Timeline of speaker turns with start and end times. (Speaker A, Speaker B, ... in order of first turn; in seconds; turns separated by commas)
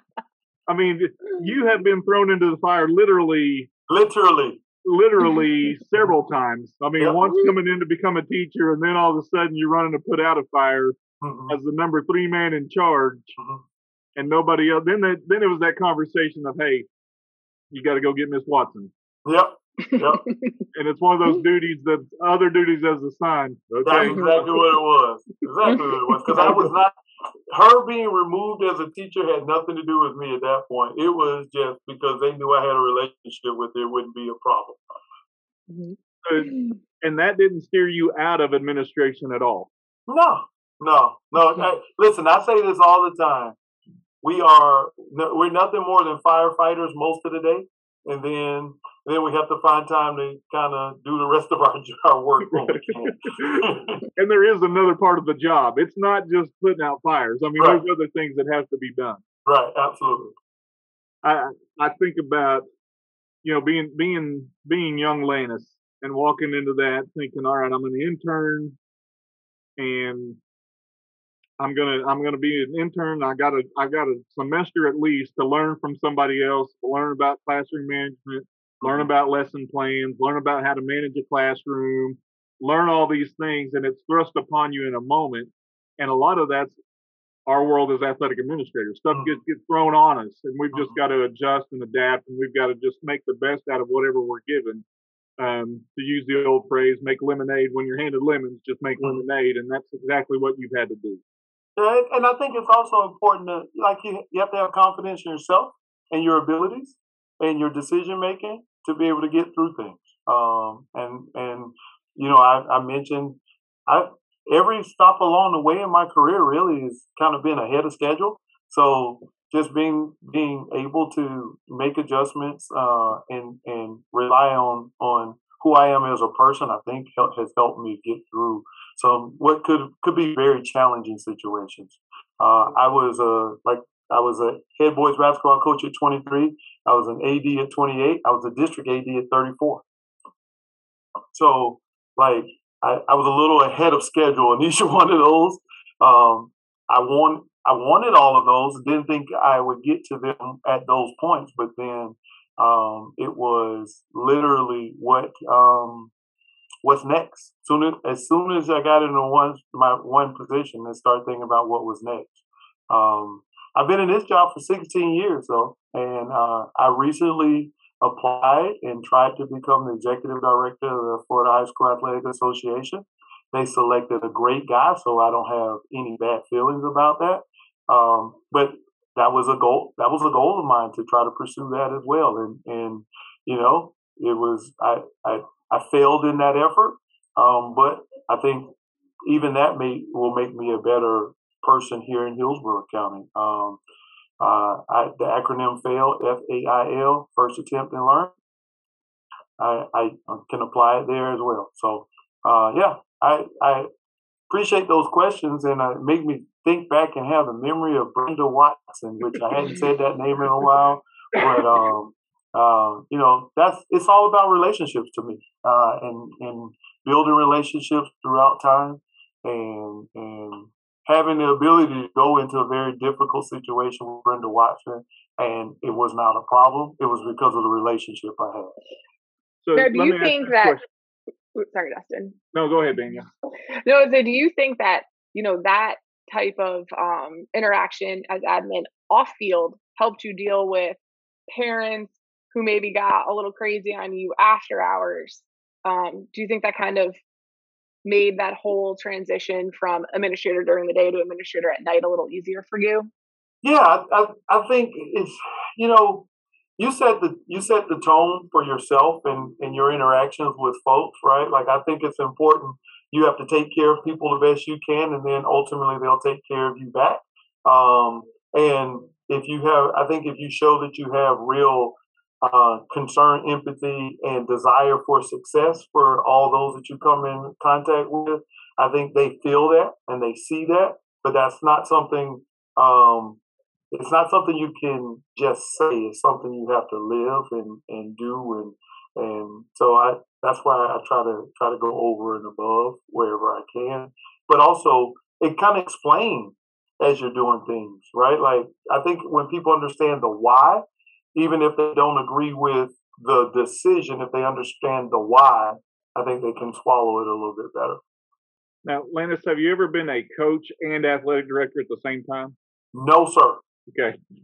Speaker A: 0.7-3.7, Speaker B: 3.9-4.6, Speaker A: 4.8-11.0, Speaker B: 11.2-11.6, Speaker A: 11.5-13.3, Speaker B: 13.4-13.6, Speaker A: 14.2-16.9, Speaker A: 17.7-18.9, Speaker B: 19.2-20.2, Speaker C: 19.9-20.6, Speaker A: 20.7-24.6, Speaker B: 23.8-27.0, Speaker C: 24.0-24.4, Speaker C: 25.7-26.5, Speaker B: 27.5-34.8, Speaker C: 35.7-36.8, Speaker A: 36.2-39.7, Speaker B: 40.1-43.6, Speaker B: 44.2-54.1, Speaker A: 52.5-59.2, Speaker B: 59.5-60.4, Speaker A: 61.2-62.6, Speaker A: 63.4-68.8, Speaker A: 69.8-70.4, Speaker A: 71.6-86.8, Speaker B: 78.8-79.1, Speaker A: 87.5-94.8, Speaker B: 90.7-91.0, Speaker A: 95.4-101.2, Speaker B: 101.8-139.8, Speaker B: 141.3-156.1, Speaker B: 156.8-188.7, Speaker B: 189.3-193.8, Speaker B: 194.4-198.3, Speaker B: 199.6-203.9, Speaker B: 204.5-228.7, Speaker A: 211.4-211.8, Speaker A: 229.6-230.8, Speaker C: 229.8-230.8, Speaker C: 231.6-232.4, Speaker A: 232.5-233.3, Speaker C: 233.8-241.0, Speaker C: 241.5-247.2, Speaker C: 248.1-253.1, Speaker B: 253.6-256.3, Speaker B: 256.8-283.4, Speaker B: 283.9-300.8, Speaker B: 301.4-308.0, Speaker A: 308.9-312.6, Speaker B: 312.9-313.6, Speaker A: 313.9-314.2